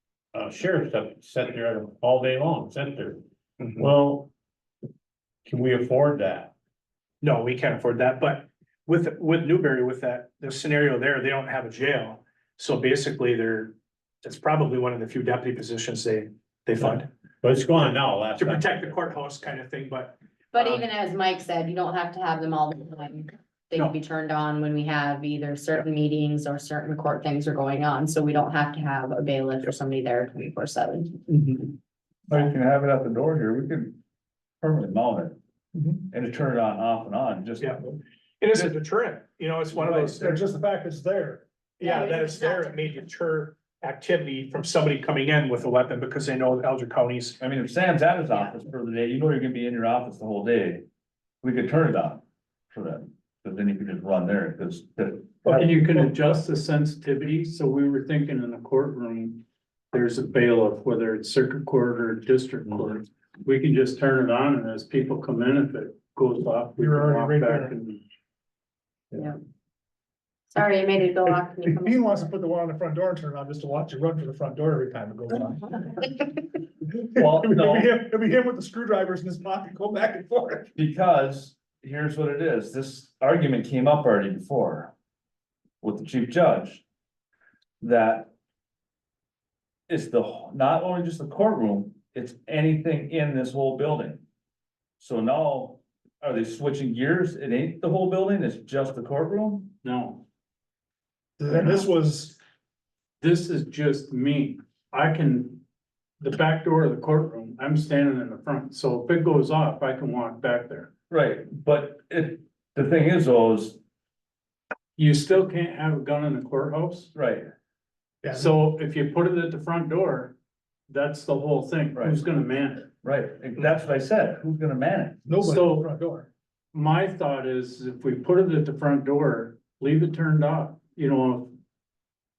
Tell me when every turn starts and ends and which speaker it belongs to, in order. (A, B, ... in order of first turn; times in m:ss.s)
0:00.3-0:03.2 A
0:03.6-0:03.8 B
0:03.8-0:04.3 A
0:05.4-0:06.5 A
0:07.2-0:17.1 B
0:16.8-0:19.0 A
0:18.4-0:20.8 B
0:20.5-0:31.2 C
0:31.3-0:31.7 B
0:32.3-0:34.0 D
0:34.6-0:35.4 D
0:35.7-0:36.0 E
0:36.1-0:37.8 D
0:38.4-0:40.4 B
0:39.7-0:40.1 D
0:40.1-0:41.4 E
0:41.8-0:47.4 B
0:41.8-0:42.8 C
0:47.4-0:50.8 D
0:48.3-0:48.6 C
0:51.4-0:55.7 D
0:55.4-0:56.2 E
0:55.5-1:08.0 F
1:06.8-1:07.7 E
1:10.5-1:12.3 C
1:11.2-1:16.2 E
1:16.9-1:20.7 E
1:17.2-1:17.9 D
1:20.8-1:24.9 D
1:25.8-1:26.8 D
1:27.8-1:28.3 D
1:29.9-1:34.2 D
1:35.0-1:39.7 D
1:39.8-1:40.2 F
1:41.4-1:42.4 E
1:43.2-1:45.6 F
1:46.2-1:50.9 F
1:51.1-1:53.8 D
1:55.0-1:57.1 F
1:57.1-1:57.5 D
1:58.2-1:58.5 E
1:58.3-2:00.4 F
2:00.9-2:02.9 F
2:01.9-2:02.2 D
2:03.0-2:05.3 D
2:05.2-2:06.3 E
2:05.4-2:05.9 F
2:06.7-2:11.6 F